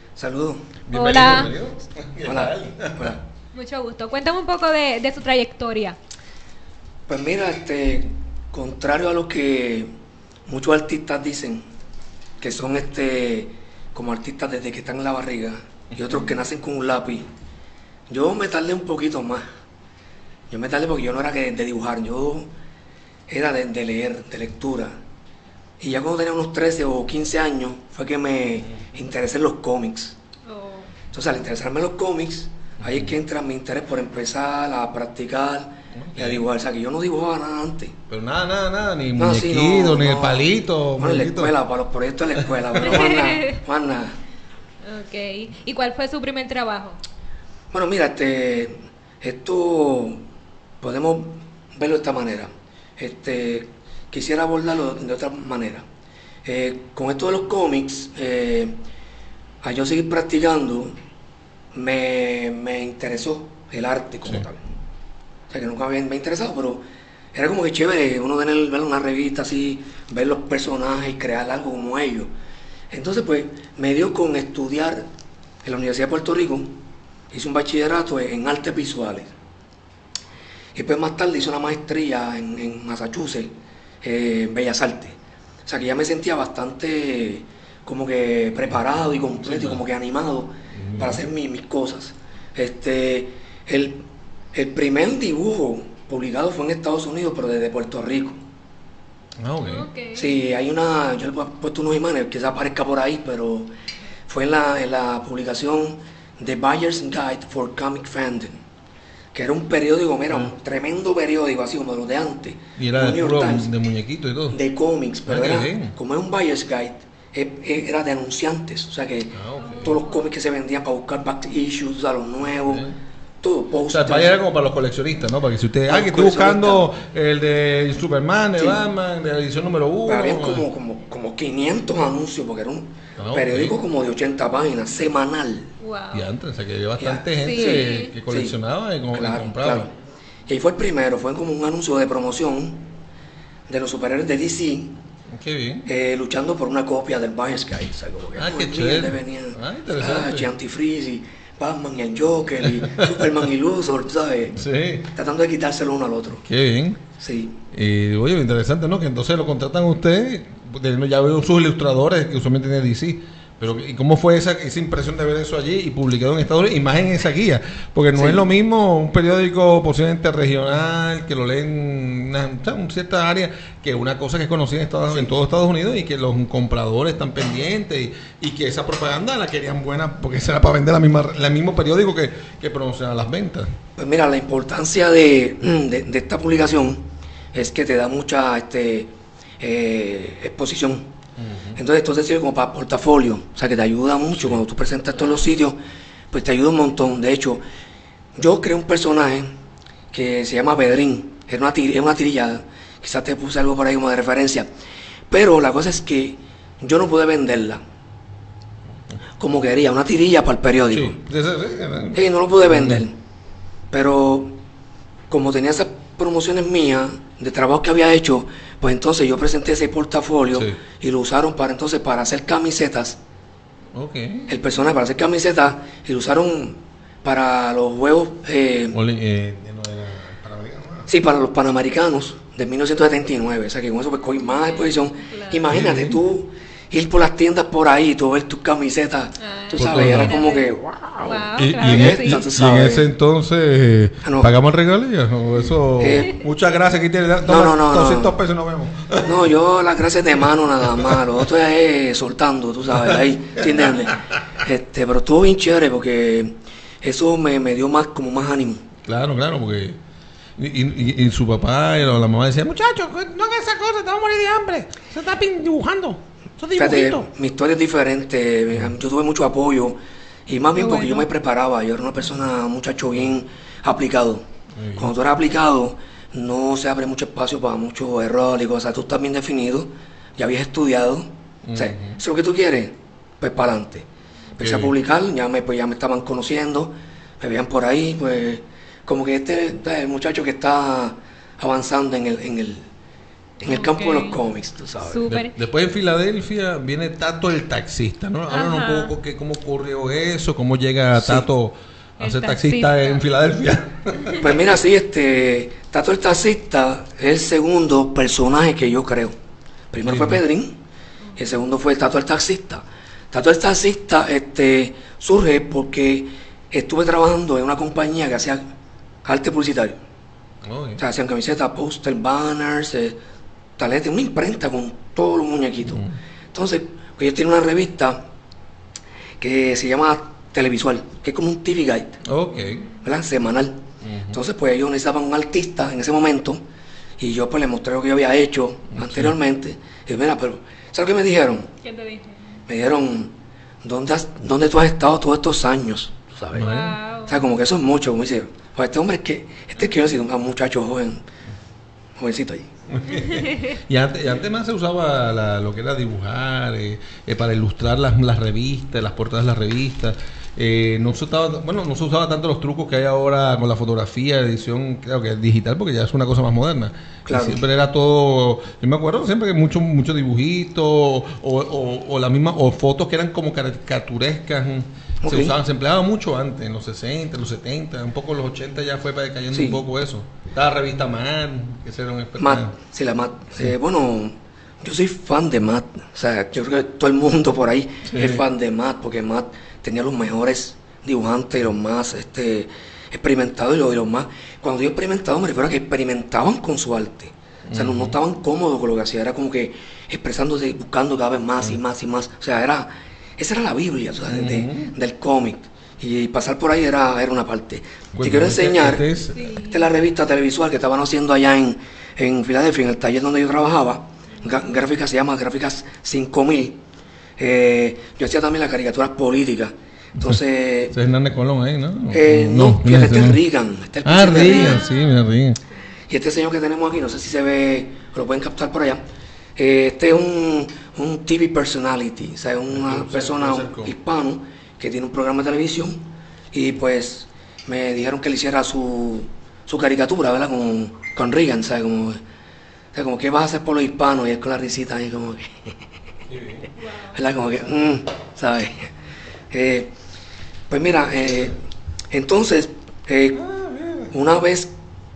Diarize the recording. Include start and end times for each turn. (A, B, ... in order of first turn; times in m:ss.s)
0:00.2-0:00.7 A
0:00.9-0:03.2 B
0:00.9-0:01.5 C
0:02.2-0:03.2 A
0:03.5-0:06.0 C
0:07.1-0:09.9 A
0:10.5-0:11.6 A
0:12.4-0:17.3 A
0:18.1-0:19.5 A
0:20.5-0:22.5 A
0:23.3-0:24.9 A
0:25.8-0:30.1 A
0:30.5-0:30.9 C
0:31.1-0:38.0 A
0:32.8-0:33.1 B
0:36.0-0:36.5 B
0:38.1-0:41.5 B
0:39.2-0:44.2 A
0:42.9-0:43.6 C
0:44.8-0:47.0 C
0:47.7-0:50.2 A
0:50.8-0:55.8 A
0:56.4-0:58.8 A
0:59.6-1:00.9 A
1:01.7-1:04.6 A
1:05.5-1:12.3 A
1:12.9-1:15.0 A
1:15.6-1:16.8 A
1:17.3-1:19.3 A
1:20.7-1:38.4 A
1:29.4-1:29.8 B
1:30.8-1:31.2 B
1:39.4-1:39.9 B
1:39.6-1:40.4 C
1:40.1-1:43.7 A
1:44.3-1:48.6 A
1:49.3-1:53.7 A
1:52.8-1:54.6 B
1:54.5-2:02.8 A
1:55.3-1:55.9 B
1:59.3-2:00.0 B
1:59.6-2:00.1 C
2:02.5-2:03.0 B
2:03.4-2:04.4 A
2:03.9-2:10.6 B
2:05.9-2:06.9 A
2:10.0-2:15.7 A
2:13.2-2:13.8 B
2:15.8-2:16.3 C
2:16.1-2:19.9 B
2:17.0-2:18.5 A
2:17.4-2:18.1 C
2:19.1-2:19.9 A
2:20.5-2:22.8 A
2:23.7-2:25.0 A
2:25.3-2:25.9 B
2:25.8-2:34.6 A
2:28.4-2:30.5 B
2:32.6-2:33.3 B
2:34.5-2:35.1 B
2:35.1-2:36.4 A
2:36.4-2:37.0 B
2:37.2-2:37.6 A
2:37.7-3:03.7 B
2:48.1-2:48.4 A
2:55.1-2:55.3 A
3:04.0-3:11.1 A
3:11.4-3:11.8 B
3:11.8-3:15.8 A
3:16.3-3:17.6 A
3:18.4-3:19.5 A
3:20.1-3:24.7 A
3:25.3-3:27.8 A
3:29.4-3:31.2 A
3:30.9-3:33.0 B
3:32.1-3:33.1 A
3:33.9-3:34.6 A
3:35.3-3:43.2 A
3:43.9-3:44.5 B
3:44.5-3:49.0 A
3:48.9-3:51.1 B
3:51.1-4:03.1 A
3:54.6-3:55.6 C
3:55.7-3:56.2 B
3:59.4-4:00.7 C
3:59.8-4:00.3 B
4:01.2-4:02.4 C
4:01.6-4:09.5 B
4:04.2-4:04.5 A
4:06.0-4:06.3 A
4:07.4-4:08.3 A
4:09.2-4:18.8 A
4:10.8-4:11.3 B
4:12.9-4:14.4 B
4:19.0-4:20.0 B
4:20.6-4:27.3 B
4:26.8-4:34.4 A
4:30.8-4:31.3 C
4:34.8-4:35.1 B
4:35.0-4:44.1 A
4:41.6-4:42.2 B
4:44.6-4:44.9 B
4:44.6-4:52.9 A
4:53.6-4:55.3 A
4:53.6-4:54.4 C
4:55.0-4:55.5 C
4:55.3-5:04.5 B
4:58.5-4:59.1 C
5:01.2-5:01.4 A
5:02.2-5:03.2 C
5:04.4-5:09.3 A
5:09.9-5:10.8 A
5:10.0-5:10.4 B
5:11.4-5:18.6 A
5:19.2-5:20.0 A
5:20.6-5:21.0 B
5:21.0-5:23.2 A
5:23.8-5:28.2 A
5:29.4-5:32.2 A
5:32.2-5:32.8 B
5:33.0-5:36.6 A
5:34.0-5:34.4 B
5:37.2-5:41.7 A
5:38.9-5:39.3 B
5:41.8-5:42.4 C
5:42.7-5:46.7 A
5:46.5-5:47.0 B
5:46.6-5:47.4 C
5:47.2-5:51.2 A
5:52.2-5:52.7 A
5:52.9-6:22.7 B
6:07.2-6:07.6 A
6:15.2-6:15.6 A
6:19.5-6:19.8 A
6:22.4-6:56.8 A
6:28.1-6:28.4 B
6:37.7-6:38.2 B
6:44.3-6:44.9 B
6:48.1-6:49.4 B
6:49.3-6:49.8 C
6:57.4-7:00.9 A
7:00.9-7:03.4 B
7:02.1-7:04.8 A
7:04.0-7:05.6 B
7:04.3-7:05.3 C
7:06.1-7:09.0 A
7:09.6-7:16.0 A
7:12.7-7:13.9 B
7:16.5-7:22.2 A
7:22.9-7:25.5 A
7:26.3-7:26.7 B
7:26.8-7:27.2 C
7:27.1-7:28.9 A
7:29.5-7:29.9 A
7:30.7-7:31.6 A
7:32.1-7:33.4 A
7:33.3-7:34.1 B
7:34.1-7:34.7 A